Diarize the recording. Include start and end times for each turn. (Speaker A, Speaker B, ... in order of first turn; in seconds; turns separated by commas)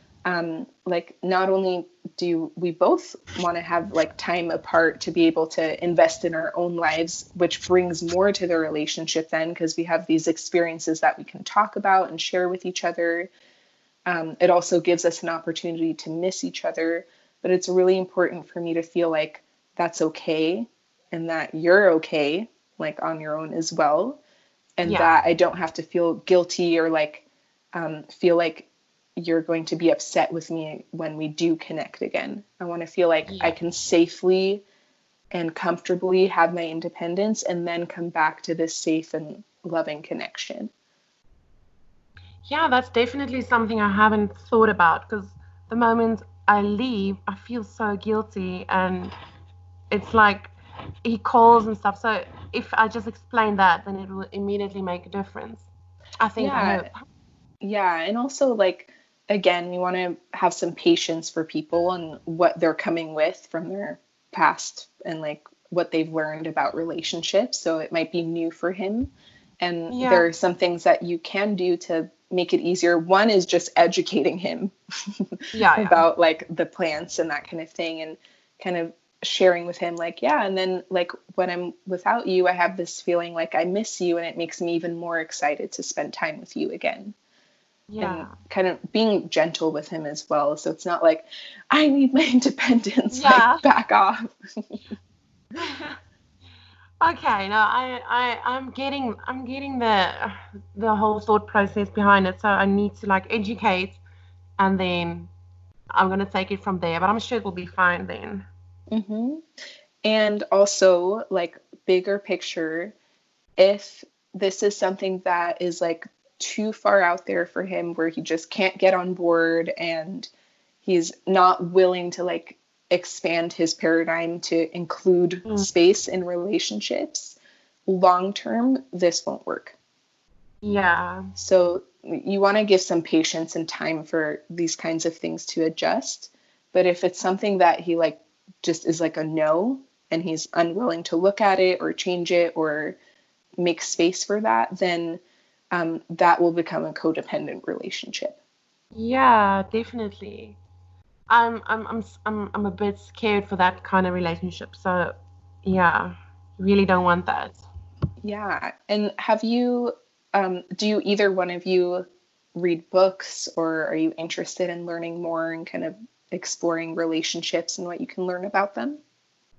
Speaker A: 0.2-13.3, Speaker A: 14.1-24.2, Speaker A: 24.8-34.6, Speaker B: 24.8-25.2, Speaker B: 33.3-33.5, Speaker A: 35.3-40.7, Speaker B: 42.4-49.1, Speaker B: 49.9-50.5, Speaker B: 51.0-55.7, Speaker B: 56.2-57.0, Speaker A: 56.4-56.9, Speaker A: 57.6-87.1, Speaker B: 69.9-70.3, Speaker B: 75.5-76.1, Speaker B: 87.9-88.3, Speaker A: 88.0-94.8, Speaker B: 93.1-93.6, Speaker B: 95.5-96.0, Speaker B: 97.0-104.0, Speaker B: 104.6-105.3, Speaker B: 105.9-108.5, Speaker A: 108.9-109.4, Speaker A: 110.0-112.9, Speaker A: 113.6-120.3, Speaker A: 120.8-129.8, Speaker B: 130.6-131.3, Speaker A: 131.3-143.0, Speaker A: 143.6-145.2, Speaker A: 145.7-148.4, Speaker B: 148.9-150.6, Speaker B: 151.3-157.6, Speaker A: 158.2-169.0